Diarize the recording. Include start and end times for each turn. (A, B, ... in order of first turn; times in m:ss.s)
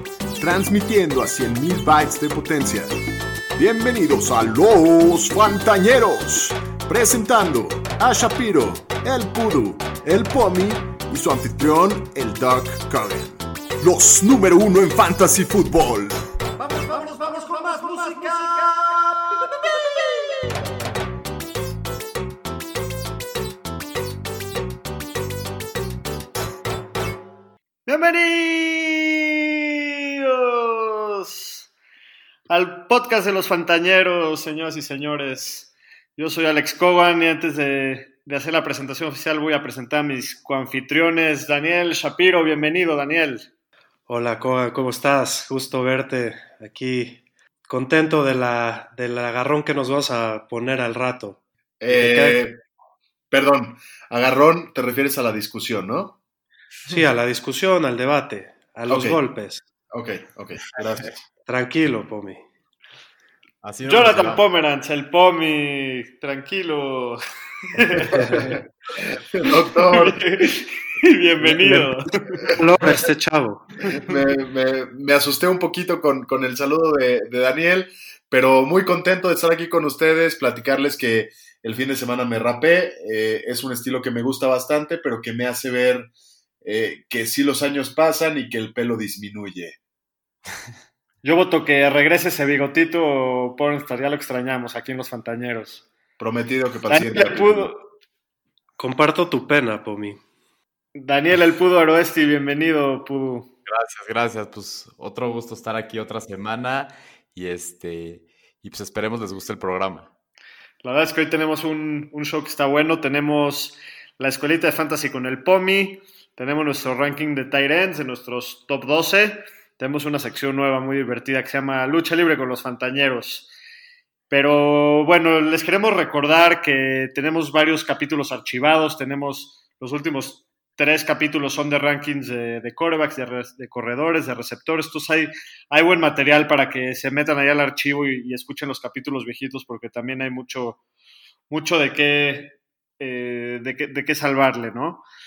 0:00.4-0:02.9 A
0:03.6-0:16.2 A
0:16.7-0:18.8 B
0:27.9-0:29.6 B
0:30.2-0:31.7 B
0:32.5-0:43.5 B
0:44.1-0:52.4 C
0:51.8-0:52.6 D
0:53.3-0:56.2 D
0:56.9-0:59.6 C
0:58.9-0:59.2 D
0:59.9-1:01.2 D
1:01.5-1:02.4 C
1:03.6-1:04.4 E
1:03.8-1:08.2 B
1:08.1-1:08.6 D
1:09.2-1:10.2 D
1:09.9-1:12.6 B
1:11.4-1:11.9 C
1:12.5-1:13.7 C
1:14.0-1:26.1 D
1:26.6-1:29.8 D
1:31.2-1:35.8 B
1:36.2-1:37.7 D
1:36.9-1:37.9 B
1:38.8-1:40.2 C
1:41.0-1:43.5 B
1:43.7-1:50.1 E
1:50.8-2:03.5 B
2:04.3-2:20.8 B
2:21.5-2:25.0 B